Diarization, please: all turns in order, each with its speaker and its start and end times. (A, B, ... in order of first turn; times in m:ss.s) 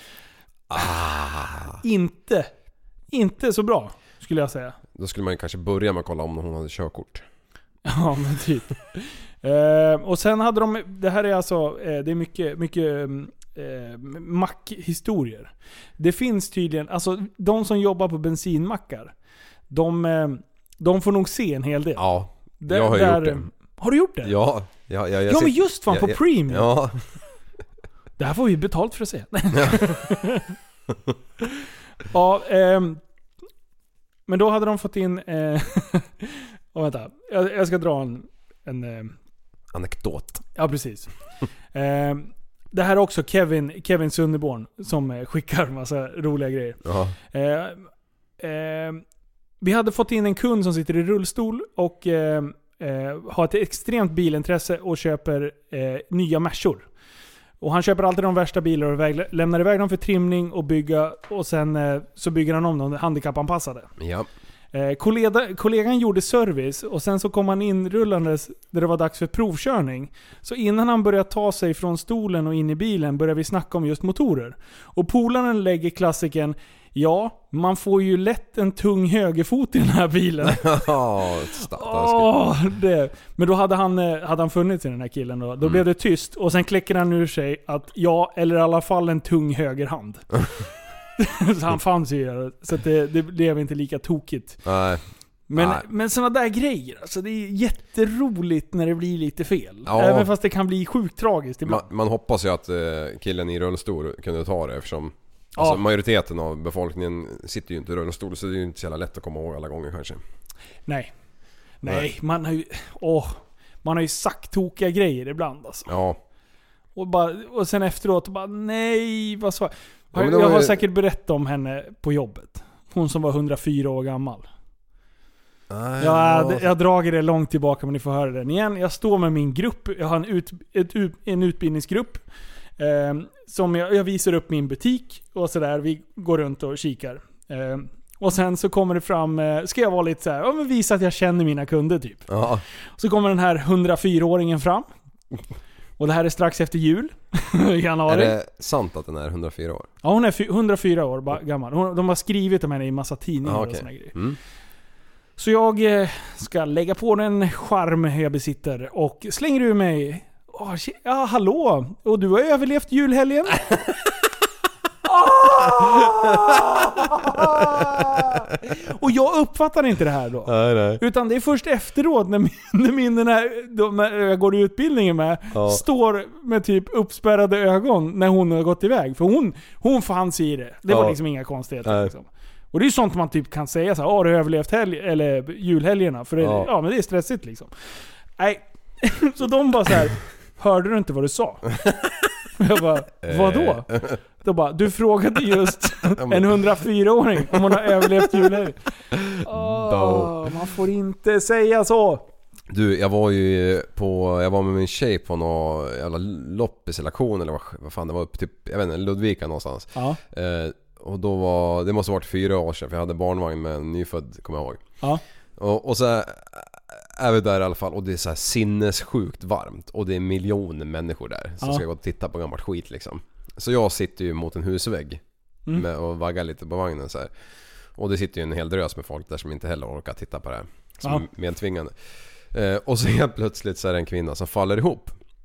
0:00.7-0:01.8 A
0:01.8-0:02.5 B
0:03.1-0:04.8 B
0:05.0-0:07.2 A
0:07.8-0:19.1 B
0:19.7-0:22.0 B
0:22.0-0:23.5 A
0:22.6-0:24.3 B
0:24.2-0:27.0 A
0:25.3-0:26.7 B
0:28.2-0:30.5 B
0:29.5-0:29.8 A
0:32.1-0:33.0 B
0:34.3-0:39.2 B
0:39.7-0:40.5 A
0:40.6-0:41.1 B
0:41.7-0:46.8 B
0:46.8-0:47.2 A
0:47.3-0:47.9 B
0:48.4-0:49.0 B
0:49.6-0:56.9 B
0:57.6-1:03.9 B
1:04.0-1:04.3 A
1:04.7-1:20.8 B
1:20.4-1:22.4 A
1:21.7-1:30.3 B
1:31.2-1:34.6 B
1:34.6-1:35.0 A
1:35.5-1:41.8 B
1:35.6-1:35.8 A
1:39.9-1:40.3 A
1:41.6-1:50.2 A
1:50.9-1:51.1 B
1:51.8-1:55.9 B
1:55.9-1:56.2 A
1:57.0-2:04.5 B
2:00.1-2:00.8 A
2:05.7-2:06.7 A
2:06.0-2:12.2 B
2:12.8-2:22.3 B
2:22.3-2:22.6 A
2:23.0-2:24.9 B
2:26.0-2:28.3 B
2:28.1-2:29.9 A
2:30.0-2:34.2 B
2:33.4-2:34.4 A
2:35.4-2:43.6 B
2:45.1-3:07.7 B
2:50.5-2:51.0 A
2:55.5-2:55.8 A
3:00.9-3:01.2 A
3:01.8-3:02.1 A
3:06.4-3:06.7 A
3:08.4-3:11.7 B
3:12.6-3:13.9 B
3:13.2-3:14.2 A
3:14.4-3:18.8 B
3:16.2-3:16.6 A
3:18.0-3:18.5 A
3:19.1-3:20.5 A
3:19.4-3:22.3 B
3:22.7-3:34.8 A
3:35.6-3:45.2 A
3:45.7-3:47.3 A
3:48.0-3:51.9 A
3:52.5-3:55.2 A